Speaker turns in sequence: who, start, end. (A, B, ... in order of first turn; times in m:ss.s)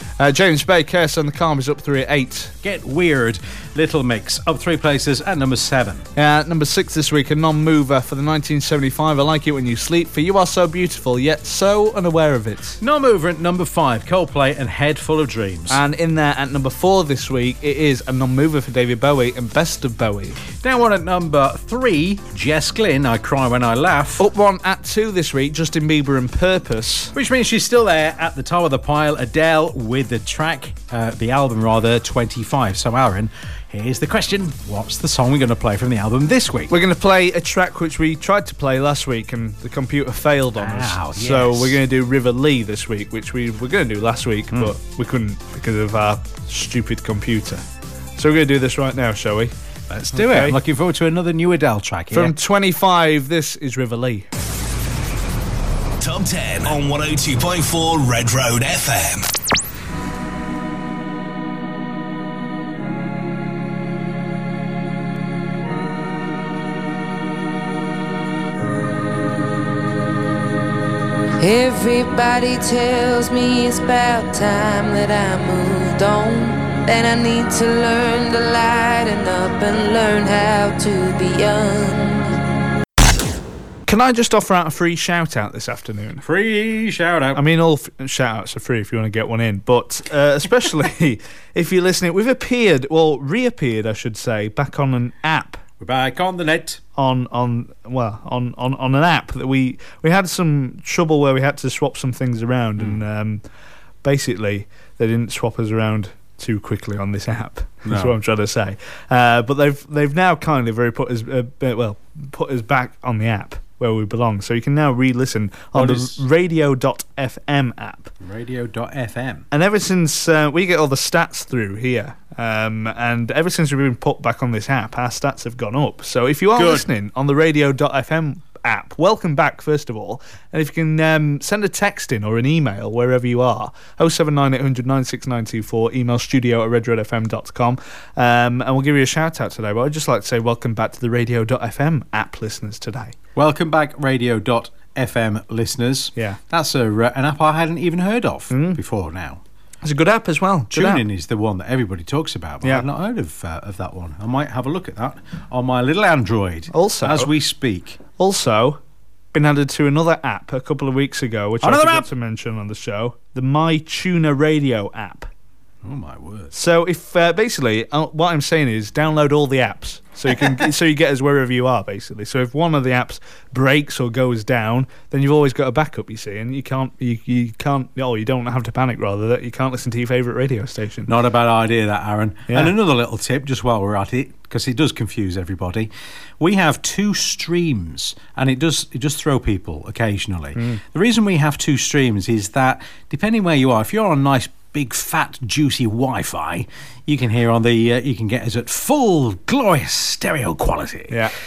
0:00.2-0:02.5 A
0:02.6-0:06.0 B
0:06.2-0:12.8 A
0:12.8-0:15.8 B
0:15.7-0:20.4 A
0:20.6-0:24.2 B
0:24.2-0:27.1 A
0:27.2-0:36.7 B
0:36.7-0:47.6 A
0:40.6-0:41.8 B
0:48.2-0:49.5 A
0:49.9-0:52.4 B
0:50.1-0:50.6 A
0:52.1-0:54.3 A
0:56.0-0:59.3 C
1:11.4-1:22.4 D
1:23.9-1:26.2 A
1:26.2-1:27.4 B
1:27.4-1:35.6 A
1:35.8-1:36.8 B
1:37.0-1:43.4 A
1:44.0-1:58.1 A
1:47.8-1:48.1 B
1:55.8-1:56.2 B
1:58.2-1:59.4 B
1:59.5-2:23.2 A
2:06.6-2:06.9 B
2:23.4-2:29.4 B
2:28.5-2:28.8 A
2:29.8-2:31.1 A
2:30.7-2:38.0 B
2:36.7-2:37.3 A
2:38.2-2:38.8 A
2:39.3-2:45.3 A
2:41.6-2:42.1 B
2:45.8-2:46.5 B
2:46.5-3:01.1 A
3:01.1-3:21.2 B
3:02.5-3:02.8 A
3:10.6-3:10.8 A